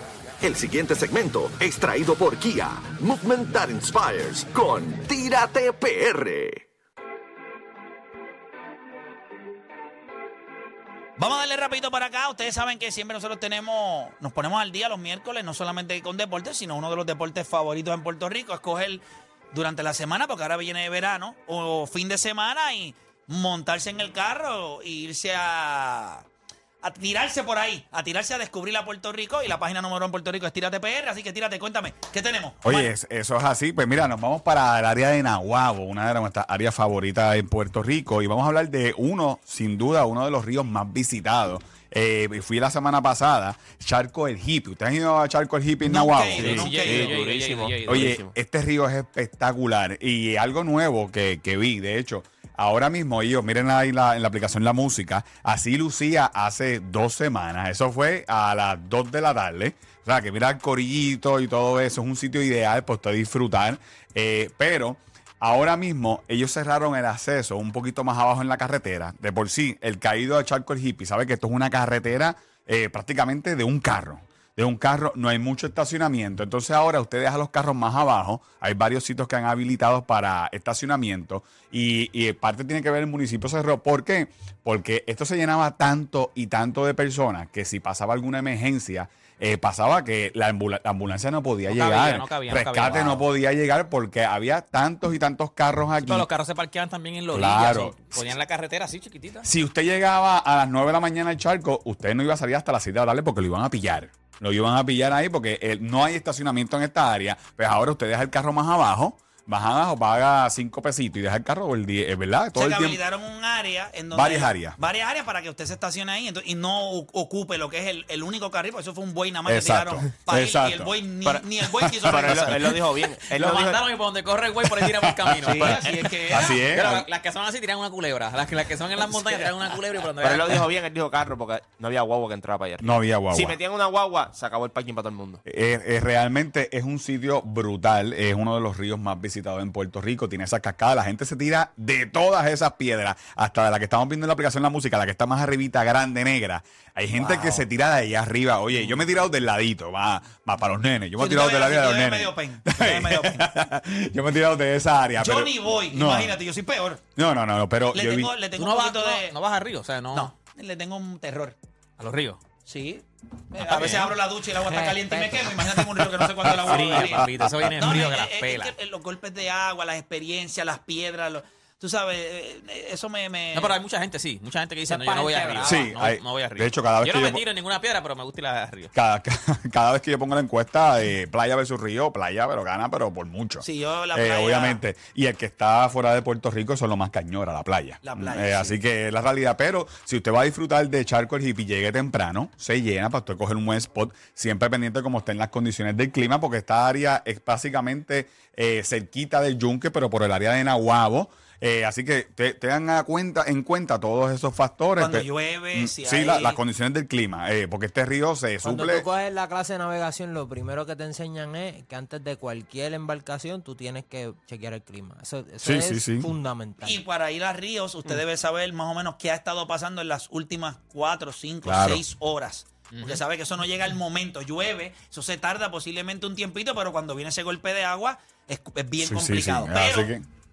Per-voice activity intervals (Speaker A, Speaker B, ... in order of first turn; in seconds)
Speaker A: 0.4-6.6
Speaker B: 11.2-26.2, 26.8-32.9, 45.9-47.1, 112.5-122.8, 125.6-126.7, 147.2-147.6, 151.2-153.5, 155.2-157.0, 157.9-159.3, 160.1-161.6, 162.7-173.8, 183.6-184.8, 188.0-188.8, 205.0-206.6, 216.8-230.1
Speaker C: 32.6-46.9, 47.9-96.3, 97.3-98.3, 99.4-113.0, 114.1-114.8, 119.5-121.0, 121.7-122.8, 124.7-127.0, 132.8-133.6, 135.4-156.4, 157.2-158.3, 165.8-168.0, 175.6-177.4, 178.9-209.1, 215.6-216.3, 221.6-222.0, 229.0-230.2
Speaker D: 46.4-48.1, 91.7-93.3, 96.0-99.5, 123.3-130.6, 158.6-160.3, 162.0-162.4, 163.6-164.1, 166.6-168.7, 173.5-178.9, 222.9-223.2
Speaker E: 46.4-48.3, 122.0-123.8, 125.4-126.0, 126.6-127.0, 129.1-129.5, 130.2-135.4
Speaker F: 164.6-165.5, 174.9-175.9, 208.6-217.0